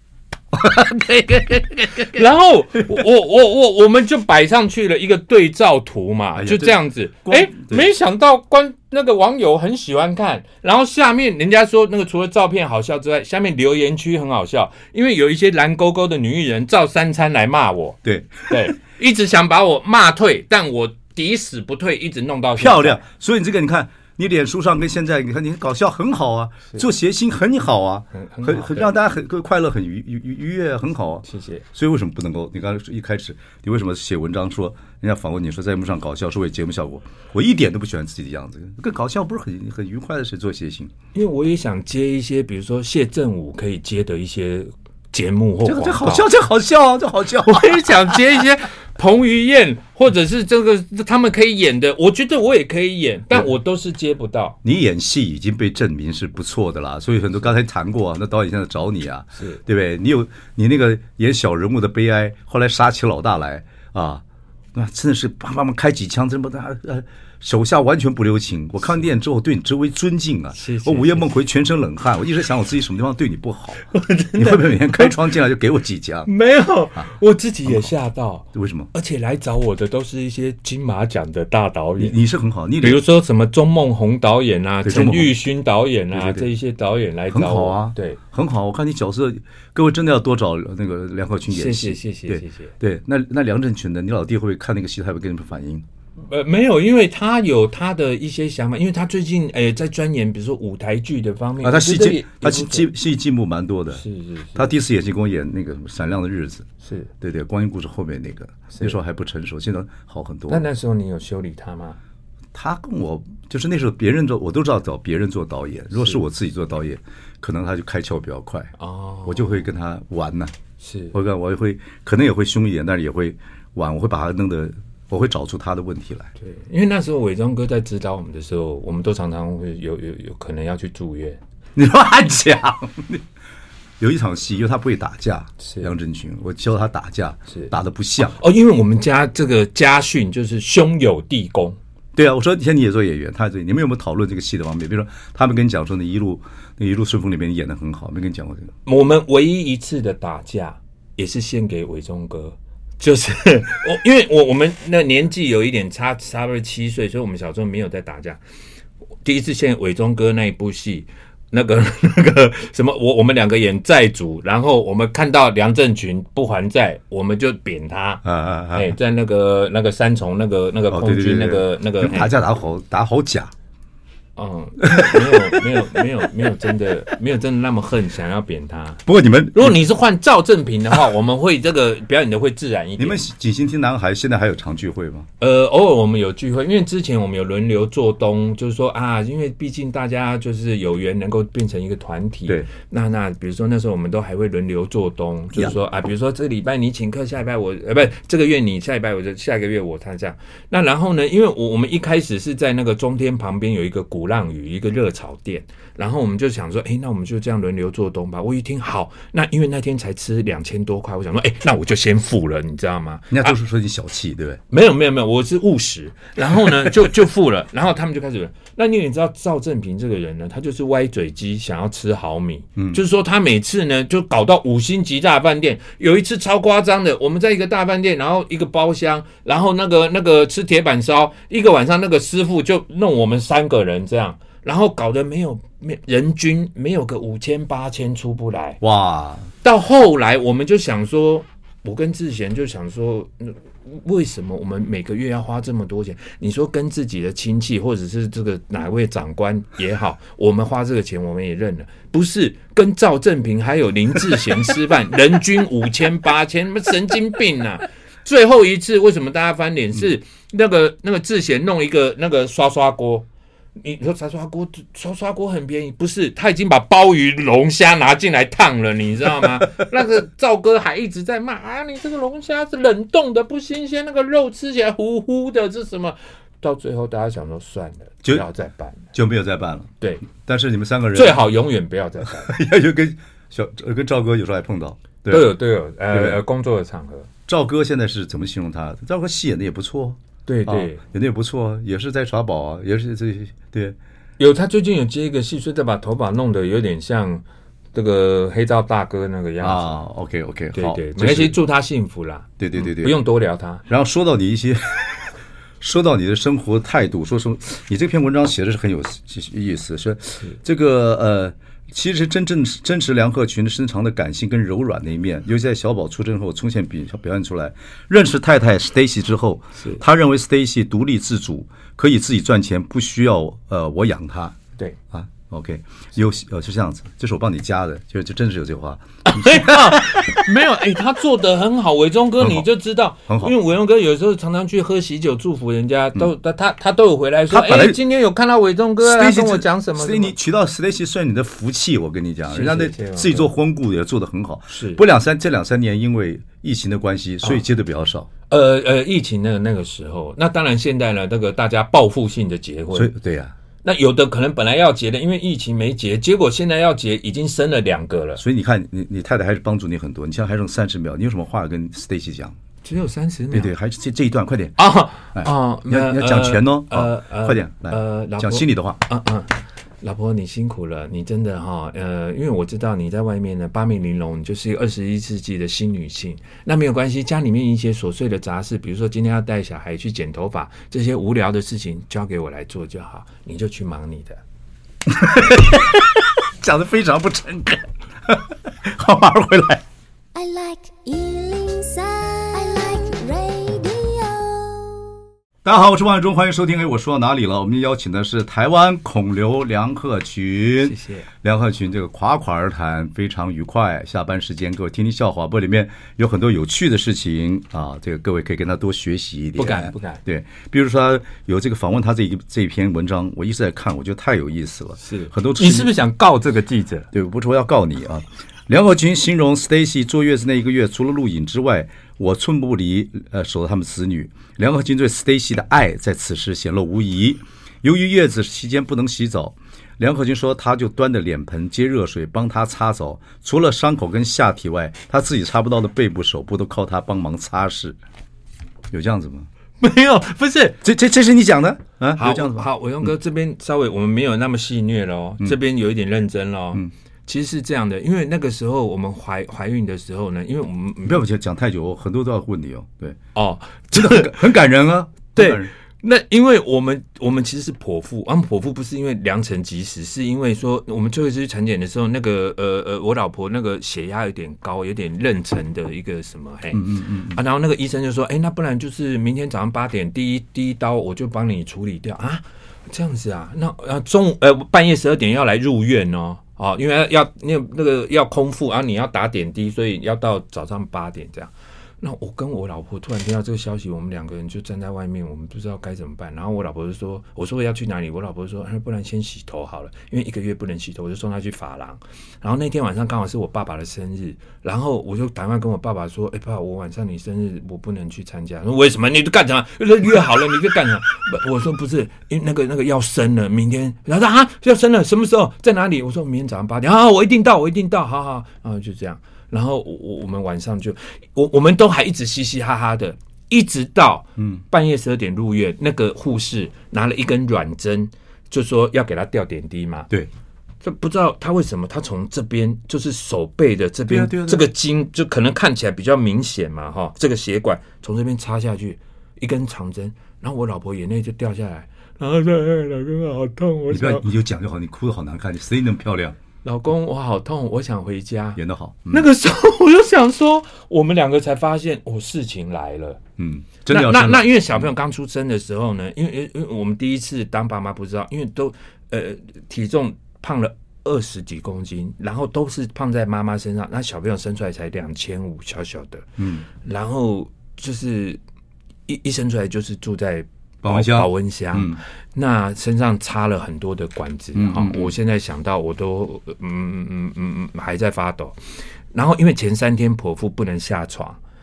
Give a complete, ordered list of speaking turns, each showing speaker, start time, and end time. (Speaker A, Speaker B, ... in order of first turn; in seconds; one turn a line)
Speaker A: 0.5-2.2
Speaker B: 1.1-23.0
Speaker A: 6.4-7.9
Speaker A: 18.0-18.7
Speaker A: 22.6-40.9
Speaker B: 28.1-28.9
Speaker B: 31.3-31.6
Speaker B: 41.1-46.3
Speaker A: 45.6-48.0
Speaker B: 47.5-54.6
Speaker A: 54.6-64.2
Speaker B: 59.4-59.6
Speaker A: 64.7-73.8
Speaker B: 70.6-71.3
Speaker B: 73.9-75.2
Speaker A: 74.4-76.3
Speaker B: 76.3-82.2
Speaker A: 78.5-78.9
Speaker A: 82.0-83.0
Speaker B: 82.8-88.2
Speaker A: 84.8-85.4
Speaker A: 86.1-86.5
Speaker A: 87.3-95.8
Speaker B: 91.5-92.7
Speaker B: 96.2-102.9
Speaker A: 101.6-104.0
Speaker B: 103.9-104.7
Speaker A: 104.5-106.7
Speaker B: 106.8-107.1
Speaker A: 107.2-110.7
Speaker B: 110.5-112.0
Speaker A: 112.5-118.7
Speaker B: 116.0-116.2
Speaker B: 118.8-119.6
Speaker A: 119.3-120.5
Speaker B: 120.8-121.1
Speaker A: 121.1-126.3
Speaker B: 126.4-131.4
Speaker A: 131.8-133.2
Speaker A: 134.0-138.4
Speaker B: 135.6-135.9
Speaker B: 137.5-141.8
Speaker A: 142.2-148.7
Speaker B: 148.9-158.4
Speaker B: 159.2-172.3
Speaker A: 168.2-168.9
Speaker A: 170.9-173.5
Speaker B: 174.4-179.0
Speaker A: 174.8-175.8
Speaker A: 179.1-179.8
Speaker B: 179.5-183.2
Speaker A: 183.0-185.3
Speaker B: 185.4-213.6
Speaker A: 213.3-214.6
Speaker B: 214.7-238.8
Speaker A: 222.8-223.0
Speaker A: 238.8-239.5
Speaker B: 239.6-279.1
Speaker A: 279.1-281.4
Speaker B: 280.0-280.3
Speaker B: 281.1-282.5
Speaker A: 282.2-285.5
Speaker B: 285.3-287.3
Speaker A: 286.1-286.4
Speaker A: 287.5-294.0
Speaker B: 290.5-291.0
Speaker B: 294.4-300.0
Speaker A: 299.6-301.6
Speaker B: 300.7-303.9
Speaker A: 302.6-303.2
Speaker A: 303.9-324.6
Speaker A: 325.1-330.5
Speaker B: 329.3-340.3
Speaker A: 332.4-332.7
Speaker A: 333.3-333.5
Speaker A: 337.5-338.0
Speaker A: 339.0-348.3
Speaker B: 342.5-343.5
Speaker B: 344.7-345.0
Speaker B: 348.5-353.1
Speaker A: 352.9-353.6
Speaker B: 353.8-358.4
Speaker A: 358.4-362.6
Speaker B: 362.8-363.7
Speaker A: 363.5-364.8
Speaker B: 364.8-384.4
Speaker A: 365.3-369.0
Speaker A: 385.1-389.8
Speaker C: 390.3-395.1
Speaker A: 395.6-415.9
Speaker B: 400.8-401.3
Speaker B: 409.6-410.2
Speaker B: 415.0-417.1
Speaker A: 417.1-438.0
Speaker A: 438.9-439.5
Speaker B: 439.8-440.8
Speaker A: 440.8-442.7
Speaker B: 442.2-451.2
Speaker A: 451.1-453.2
Speaker B: 453.4-454.5
Speaker A: 453.9-455.7
Speaker B: 455.4-520.1
Speaker A: 466.7-467.4
Speaker A: 514.4-514.6
Speaker B: 520.8-534.3
Speaker A: 524.1-524.7
Speaker A: 533.9-536.4
Speaker B: 536.6-543.2
Speaker A: 538.6-539.3
Speaker A: 543.4-544.9
Speaker B: 543.9-558.4
Speaker A: 556.4-556.7
Speaker B: 559.1-568.6
Speaker A: 560.8-562.0
Speaker A: 564.5-565.1
Speaker B: 569.1-571.4